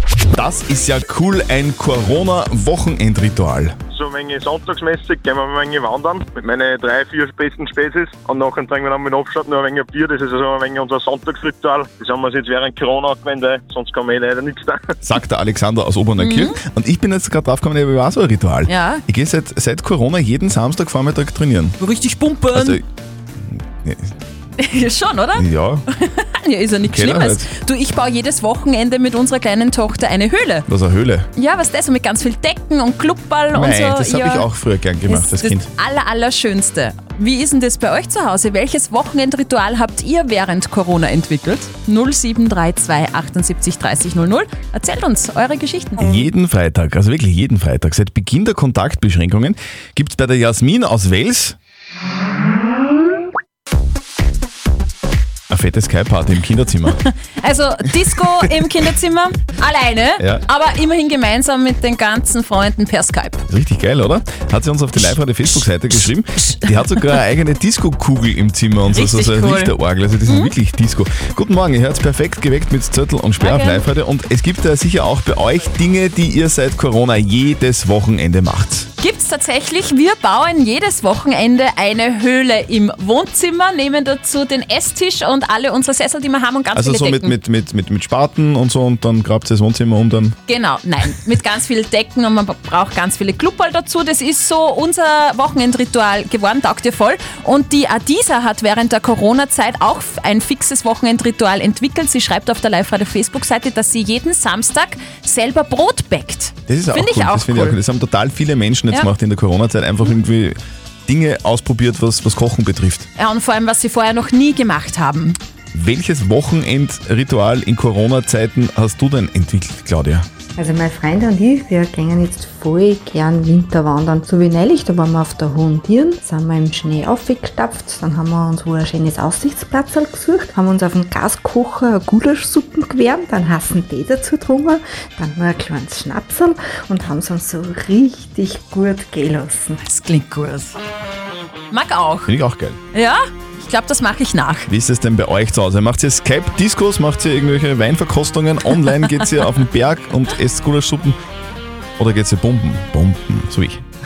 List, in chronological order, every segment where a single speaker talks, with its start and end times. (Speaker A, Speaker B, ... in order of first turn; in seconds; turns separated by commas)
Speaker A: 0.3-3.8, Speaker B: 3.9-14.8, Speaker A: 15.0-21.8, Speaker C: 16.2-16.6, Speaker C: 18.7-19.0, Speaker C: 21.8-22.8, Speaker A: 22.5-22.8, Speaker A: 23.8-24.1, Speaker C: 24.6-30.7, Speaker A: 25.4-25.8, Speaker A: 26.9-27.5, Speaker A: 30.7-31.3, Speaker C: 31.4-34.5, Speaker A: 33.5-35.7, Speaker C: 35.1-46.2, Speaker A: 46.0-51.5, Speaker A: 55.5-57.0, Speaker C: 57.4-63.4, Speaker A: 60.2-60.4, Speaker A: 63.5-78.9, Speaker C: 66.5-67.0, Speaker C: 68.9-69.7, Speaker C: 70.2-70.5, Speaker C: 73.4-73.8, Speaker C: 79.0-87.3, Speaker A: 86.7-90.4, Speaker C: 90.5-107.8, Speaker A: 106.7-113.1, Speaker C: 113.2-115.4, Speaker A: 115.7-120.3, Speaker D: 120.5-139.8, Speaker C: 139.8-140.8, Speaker C: 141.7-142.3, Speaker A: 142.3-142.8, Speaker C: 142.9-144.7, Speaker A: 144.7-151.2, Speaker A: 152.0-153.8